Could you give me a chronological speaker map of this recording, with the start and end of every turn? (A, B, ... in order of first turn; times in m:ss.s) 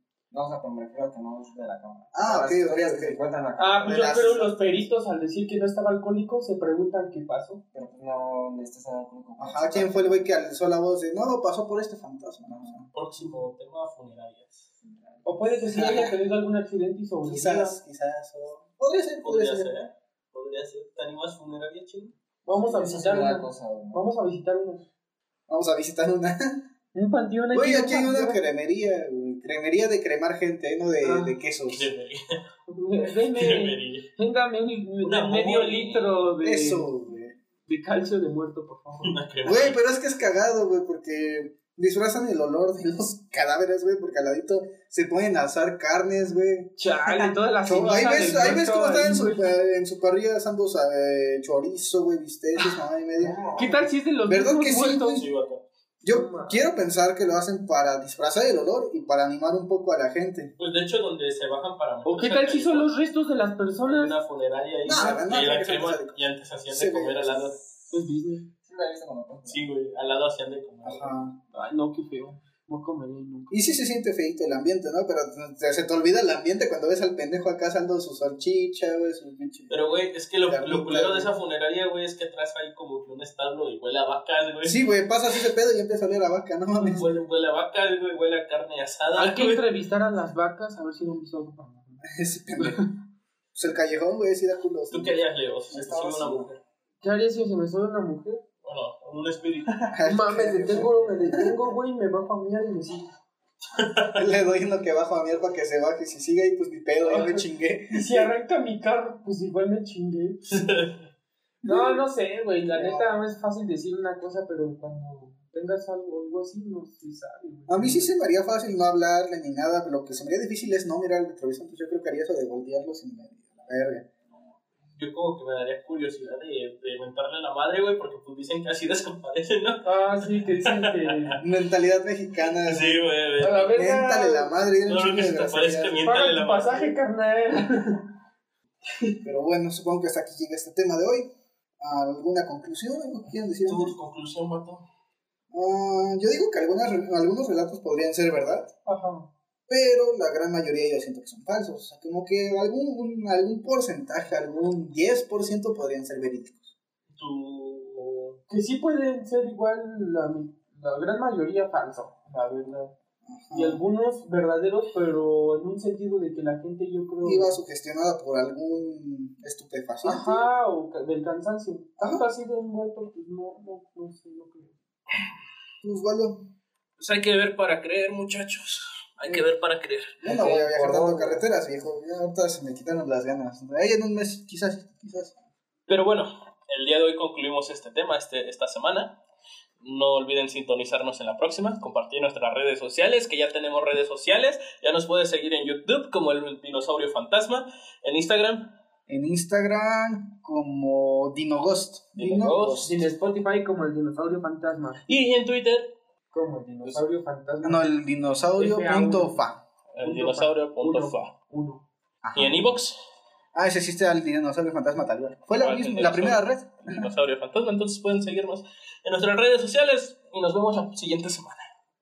0:00.3-0:04.2 A
0:02.1-0:03.2 B
0:03.6-0:07.6 C
0:03.8-0:04.6 B
0:07.7-0:10.3 A
0:09.4-0:12.9 B
0:12.9-0:14.6 D
0:14.8-0:15.4 A
0:15.2-0:17.8 C
0:15.7-0:16.1 B
0:17.2-0:19.7 B
0:19.2-0:22.1 D
0:22.4-0:24.8 C
0:22.5-0:24.1 A
0:25.5-0:26.6 B
0:26.9-0:28.4 C
0:27.5-0:31.9 B
0:31.0-0:31.4 C
0:31.7-0:32.4 D
0:32.7-0:36.9 C
0:33.2-0:34.1 D
0:35.0-0:36.3 D
0:36.4-0:37.3 B
0:37.7-0:39.2 C
0:39.0-0:39.8 D
0:39.4-0:53.4 B
0:46.8-0:49.5 C
0:53.2-0:53.9 A
0:53.6-0:55.2 C
0:54.3-0:55.3 B
0:55.1-0:55.6 D
0:56.0-1:00.5 B
0:56.1-0:56.6 C
1:00.6-1:02.9 D
1:02.0-1:04.2 C
1:03.8-1:07.6 D
1:04.8-1:07.5 B
1:07.9-1:08.5 C
1:08.6-1:09.6 A
1:09.5-1:11.1 D
1:10.8-1:11.4 B
1:11.5-1:13.6 C
1:13.5-1:19.8 B
1:19.7-1:25.4 D
1:20.4-1:21.3 B
1:24.6-1:27.1 B
1:26.8-1:29.6 D
1:29.1-1:32.0 C
1:32.0-1:32.8 B
1:33.5-1:35.2 B
1:34.9-1:36.6 D
1:35.7-1:36.5 A
1:37.0-1:38.4 C
1:38.6-1:39.9 D
1:39.9-1:41.6 B
1:40.0-1:43.1 C
1:43.7-1:44.2 D
1:44.1-1:48.3 B
1:47.0-1:50.5 C
1:50.5-1:51.0 D
1:51.6-1:51.9 B
1:51.6-1:58.1 C
1:52.7-1:53.2 B
1:57.7-2:04.1 B
2:04.9-2:11.4 D
2:09.8-2:11.4 C
2:11.4-2:16.1 B
2:12.5-2:13.7 D
2:13.4-2:14.6 C
2:14.8-2:17.0 D
2:16.0-2:18.0 C
2:19.2-2:23.9 B
2:23.6-2:24.8 D
2:25.5-2:28.7 B
2:28.8-2:29.3 C
2:29.7-2:36.7 B
2:37.1-2:38.4 D
2:38.5-2:42.9 C
2:43.2-2:43.8 B
2:43.5-2:47.5 C
2:47.2-2:50.4 B
2:50.0-2:54.8 C
2:55.8-2:56.5 B
2:57.0-3:00.3 D
3:00.2-3:05.3 B
3:00.2-3:01.4 C
3:05.9-3:09.2 D
3:09.8-3:18.7 D
3:19.1-3:23.0 B
3:22.2-3:22.9 D
3:22.8-3:25.0 C
3:25.0-3:25.9 D
3:26.3-3:27.9 C
3:27.6-3:29.6 B
3:28.6-3:29.4 C
3:29.9-3:31.3 D
3:30.0-3:31.8 C
3:32.2-3:32.8 B
3:32.3-3:33.0 D
3:33.5-3:37.0 B
3:35.6-3:41.7 D